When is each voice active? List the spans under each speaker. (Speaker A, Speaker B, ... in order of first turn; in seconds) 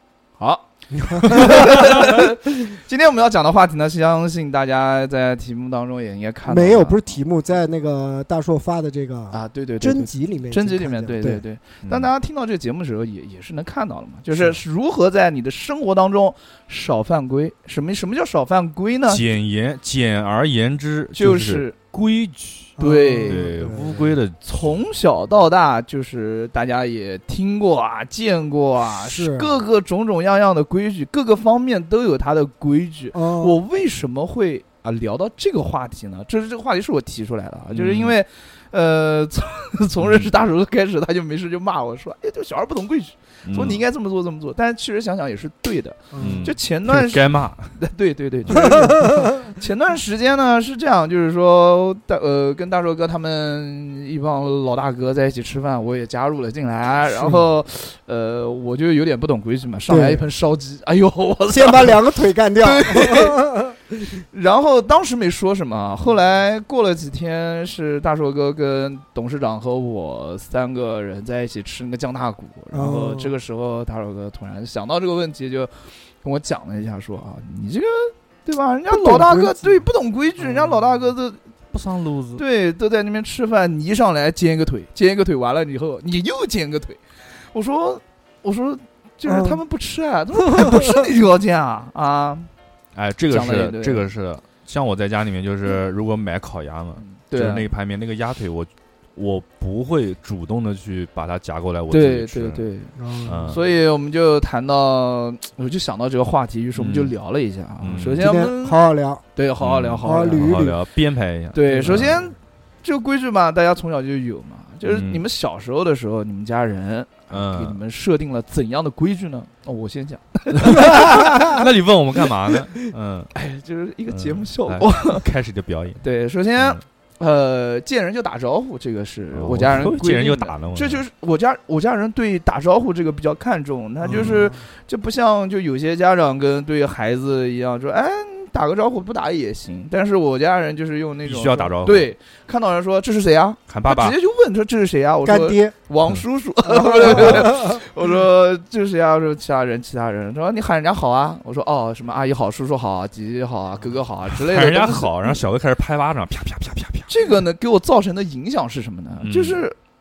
Speaker A: 0.4-0.7, 1.2-7.0, 9.3-19.2, 21.2-21.8, 22.8-23.5, 24.4-47.2, 47.8-62.1, 62.6-63.4, 64.3-75.7, 76.2-81.4, 82.4-87.0, 87.5-92.5, 93.3-94.0, 97.0-97.7, 101.9-103.0, 103.5-108.8, 109.3-110.6, 111.5-121.6, 123.3-125.2, 126.0-155.3, 157.1-159.8
Speaker B: 0.9-2.2, 6.5-11.4, 22.8-24.2, 29.0-29.5, 33.1-33.6, 46.1-46.5, 48.5-49.4, 57.1-57.4, 59.9-60.2, 61.5-63.8, 72.7-73.4, 78.9-79.9, 89.3-89.6, 90.5-90.9, 103.0-103.5, 108.2-109.2, 110.0-110.8, 111.7-112.3, 134.1-134.6, 145.2-145.7, 146.6-147.8
Speaker C: 11.8-12.1, 19.1-24.5, 37.7-38.2, 40.0-40.3, 43.5-43.8, 46.2-47.8, 81.7-82.4, 93.0-102.6, 103.3-103.6, 106.8-107.1, 107.8-108.3, 109.6-112.2, 114.8-115.2, 117.3-117.8, 120.6-123.3, 124.1-126.0, 129.3-131.0, 134.1-134.4, 141.2-142.1, 143.7-144.2, 147.1-147.5, 154.3-157.1, 159.2-159.6